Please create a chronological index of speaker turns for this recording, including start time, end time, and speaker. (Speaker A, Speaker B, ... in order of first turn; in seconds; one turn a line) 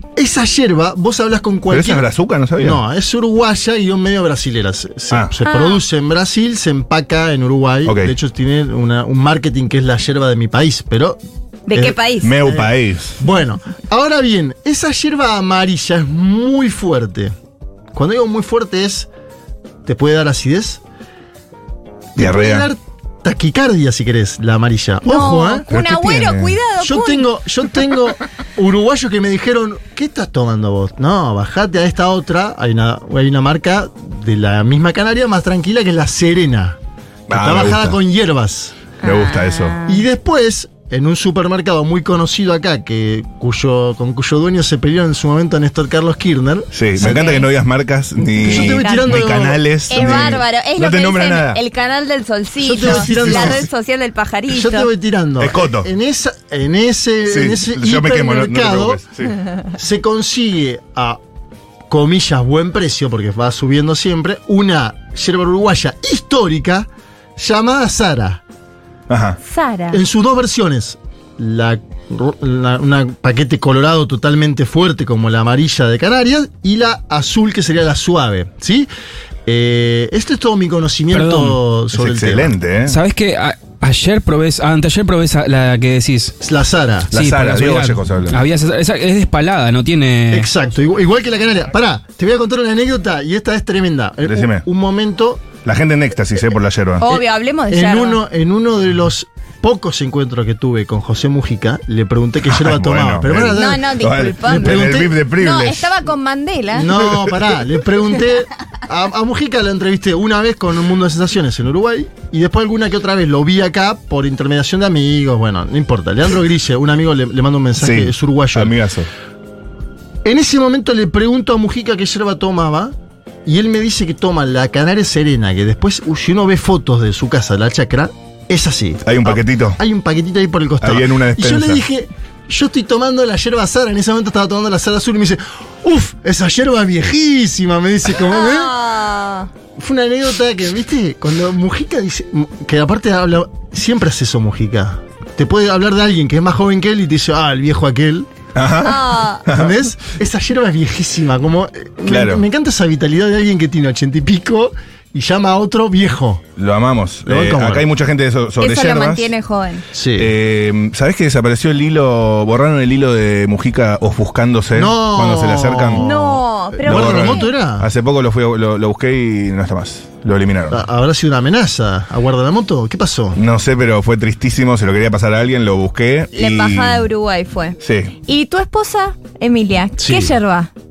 Speaker A: 0.2-2.1
Speaker B: 1.7-2.8
Speaker A: 2.6-11.2
Speaker C: 5.5-5.8
Speaker B: 7.9-8.1
Speaker C: 11.7-12.3
Speaker A: 11.7-17.4
Speaker B: 12.2-13.2
Speaker A: 17.9-19.1
Speaker A: 19.9-20.8
Speaker B: 22.2-22.7
Speaker A: 22.2-25.8
Speaker C: 25.1-27.3
Speaker B: 25.7-26.6
Speaker A: 26.8-38.8
Speaker B: 37.3-38.0
Speaker C: 39.0-40.0
Speaker B: 39.0-39.8
Speaker A: 39.9-47.4
Speaker B: 46.7-51.6
Speaker C: 47.0-47.5
Speaker A: 48.4-50.4
Speaker C: 48.5-49.3
Speaker C: 49.9-54.9
Speaker A: 52.6-53.7
Speaker B: 52.9-53.6
Speaker A: 54.5-59.0
Speaker B: 55.4-55.9
Speaker B: 57.3-59.4
Speaker A: 59.8-61.2
Speaker A: 61.9-68.4
Speaker B: 69.1-69.4
Speaker C: 69.4-70.0
Speaker A: 69.9-78.9
Speaker A: 79.5-82.6
Speaker D: 81.1-81.6
Speaker B: 81.9-83.0
Speaker D: 82.9-86.3
Speaker A: 86.4-87.1
Speaker B: 87.1-88.4
Speaker D: 87.1-90.5
Speaker A: 90.3-95.5
Speaker B: 94.3-94.6
Speaker B: 95.7-97.1
Speaker C: 97.0-98.2
Speaker A: 97.1-105.2
Speaker B: 102.5-106.0
Speaker C: 103.5-106.9
Speaker A: 106.7-118.8
Speaker B: 106.9-107.5
Speaker B: 117.8-119.1
Speaker A: 120.2-123.0
Speaker A: 123.5-138.8
Speaker B: 129.1-129.8
Speaker B: 130.8-131.8
Speaker C: 138.2-139.5
Speaker A: 139.8-148.3
Speaker B: 148.6-149.8
Speaker C: 148.8-149.4
Speaker A: 149.5-156.4
Speaker B: 152.1-152.4
Speaker B: 156.6-159.3
Speaker A: 157.3-157.9
Speaker C: 158.6-159.8
Speaker A: 159.9-160.3
Speaker B: 160.2-166.1
Speaker A: 164.7-167.9
Speaker C: 166.0-167.5
Speaker B: 166.8-170.8
Speaker A: 170.7-173.4
Speaker B: 173.4-177.1
Speaker C: 176.3-180.7
Speaker B: 177.8-178.1
Speaker A: 180.0-180.3